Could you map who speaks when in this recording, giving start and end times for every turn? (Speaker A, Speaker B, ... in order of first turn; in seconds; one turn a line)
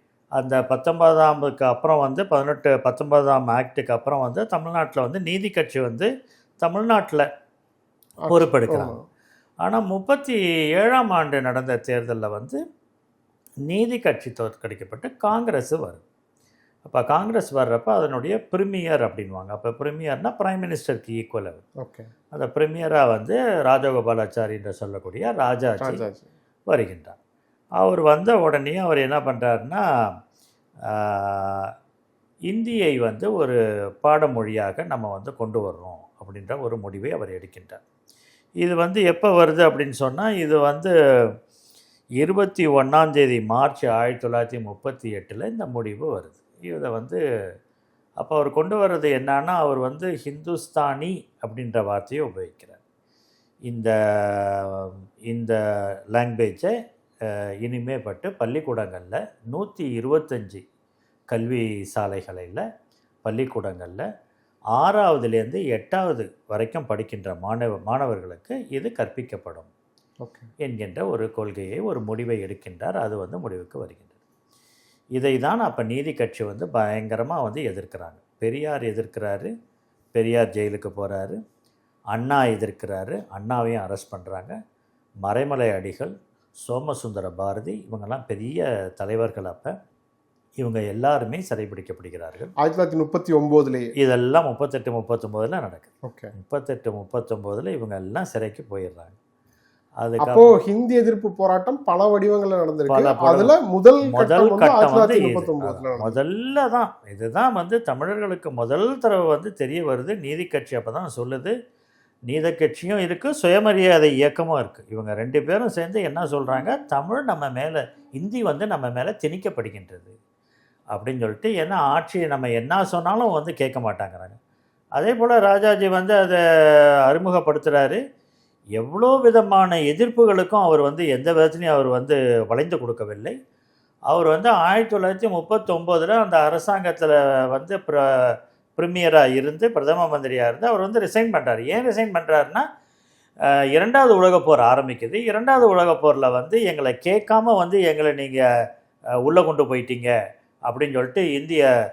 Speaker A: 0.4-6.1
Speaker A: 6.6-7.2
Speaker B: 8.2-9.0
Speaker A: 8.3-8.9
Speaker A: 9.6-12.6
Speaker A: 13.7-16.0
Speaker A: 16.8-21.6
Speaker B: 21.8-22.1
Speaker A: 22.3-26.0
Speaker B: 25.8-26.3
Speaker A: 26.7-27.1
Speaker A: 27.8-29.8
Speaker A: 30.9-31.7
Speaker A: 32.5-37.8
Speaker A: 38.6-40.9
Speaker A: 42.2-47.2
Speaker A: 48.2-52.8
Speaker A: 53.7-55.5
Speaker A: 56.1-56.7
Speaker A: 57.6-60.6
Speaker A: 61.3-62.6
Speaker A: 63.2-64.0
Speaker A: 64.7-69.7
Speaker B: 70.2-70.5
Speaker A: 70.6-74.1
Speaker A: 75.1-79.5
Speaker A: 80.1-81.4
Speaker A: 82.1-84.5
Speaker A: 85.2-89.8
Speaker A: 90.6-92.5
Speaker B: 92.6-93.9
Speaker A: 94.0-99.1
Speaker B: 96.0-96.3
Speaker A: 100.0-100.5
Speaker B: 100.2-106.2
Speaker A: 102.9-103.5
Speaker A: 104.0-111.5
Speaker A: 112.3-120.1
Speaker A: 120.9-124.4
Speaker A: 125.0-126.4
Speaker A: 127.0-128.0
Speaker A: 128.8-133.3
Speaker A: 134.1-142.7
Speaker A: 143.4-148.4
Speaker A: 149.2-150.1
Speaker A: 150.7-151.7